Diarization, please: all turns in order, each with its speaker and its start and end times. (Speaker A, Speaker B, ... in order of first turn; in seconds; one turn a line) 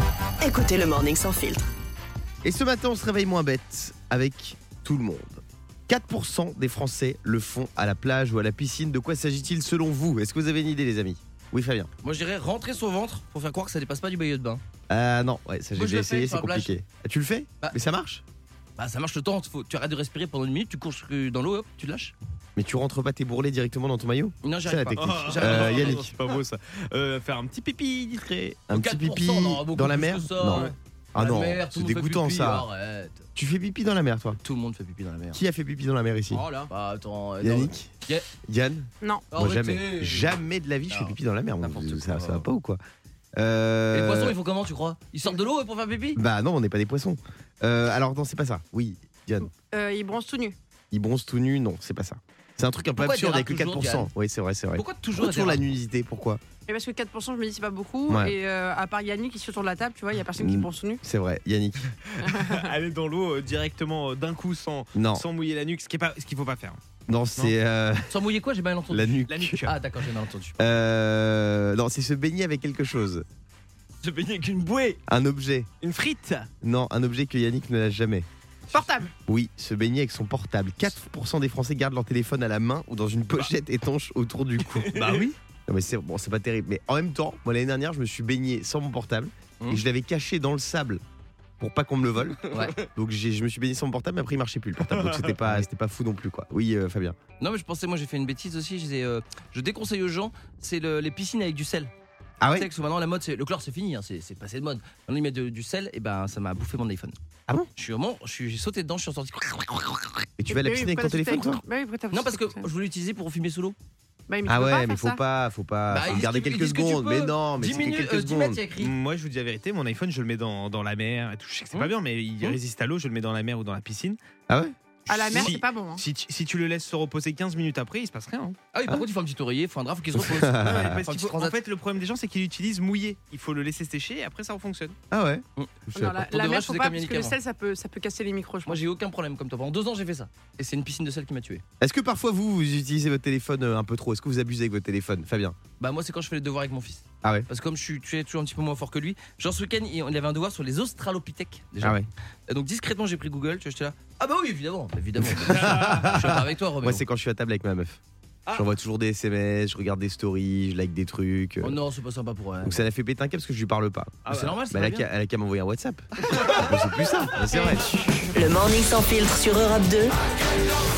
Speaker A: 0.4-1.6
Speaker B: 2.4-11.9
Speaker C: 12.0-14.6
Speaker B: 14.9-18.2
Speaker C: 15.8-16.8
Speaker C: 18.8-22.1
Speaker B: 22.6-26.0
Speaker C: 24.4-26.1
Speaker D: 25.0-28.7
Speaker B: 28.7-32.7
Speaker C: 28.7-33.2
Speaker D: 30.5-30.8
Speaker B: 33.4-34.4
Speaker C: 34.4-35.4
Speaker B: 35.3-36.5
Speaker C: 36.3-38.3
Speaker B: 37.4-37.9
Speaker B: 38.5-42.8
Speaker C: 39.3-40.4
Speaker C: 40.9-42.5
Speaker B: 43.4-44.4
Speaker C: 43.9-46.2
Speaker B: 46.2-49.5
Speaker E: 49.5-50.6
Speaker B: 50.9-56.4
Speaker C: 53.0-54.1
Speaker C: 54.7-55.6
Speaker E: 56.7-61.0
Speaker B: 58.1-58.4
Speaker B: 60.4-61.9
Speaker D: 62.0-66.8
Speaker E: 62.2-62.7
Speaker B: 65.0-65.3
Speaker B: 67.1-68.1
Speaker C: 68.1-70.7
Speaker B: 68.9-69.7
Speaker D: 69.3-69.8
Speaker B: 70.6-73.2
Speaker C: 74.0-75.0
Speaker D: 74.7-75.0
Speaker B: 75.1-75.7
Speaker D: 75.8-76.5
Speaker B: 76.6-78.3
Speaker E: 78.7-79.1
Speaker B: 79.3-85.0
Speaker D: 84.9-85.4
Speaker B: 85.7-91.0
Speaker B: 91.6-97.2
Speaker C: 92.5-92.8
Speaker D: 94.9-95.4
Speaker C: 97.4-101.9
Speaker B: 102.4-102.7
Speaker C: 102.5-107.2
Speaker C: 107.8-110.3
Speaker B: 110.4-111.6
Speaker E: 110.5-112.7
Speaker C: 112.1-113.8
Speaker E: 114.3-115.2
Speaker B: 114.5-118.6
Speaker C: 115.9-118.9
Speaker D: 118.8-124.2
Speaker C: 121.7-122.6
Speaker B: 124.5-124.7
Speaker D: 125.1-128.6
Speaker E: 125.1-126.0
Speaker C: 128.7-131.6
Speaker B: 130.2-131.0
Speaker D: 130.6-135.0
Speaker B: 135.1-136.2
Speaker C: 135.6-137.4
Speaker E: 135.9-138.8
Speaker C: 138.7-141.6
Speaker B: 141.8-145.6
Speaker C: 145.8-157.0
Speaker B: 151.8-152.1
Speaker B: 155.3-158.0
Speaker D: 155.4-156.2
Speaker B: 158.5-161.8
Speaker C: 161.6-162.9
Speaker B: 162.6-167.9
Speaker D: 164.3-164.6
Speaker C: 164.3-165.1
Speaker D: 166.2-166.8
Speaker A: 168.3-170.1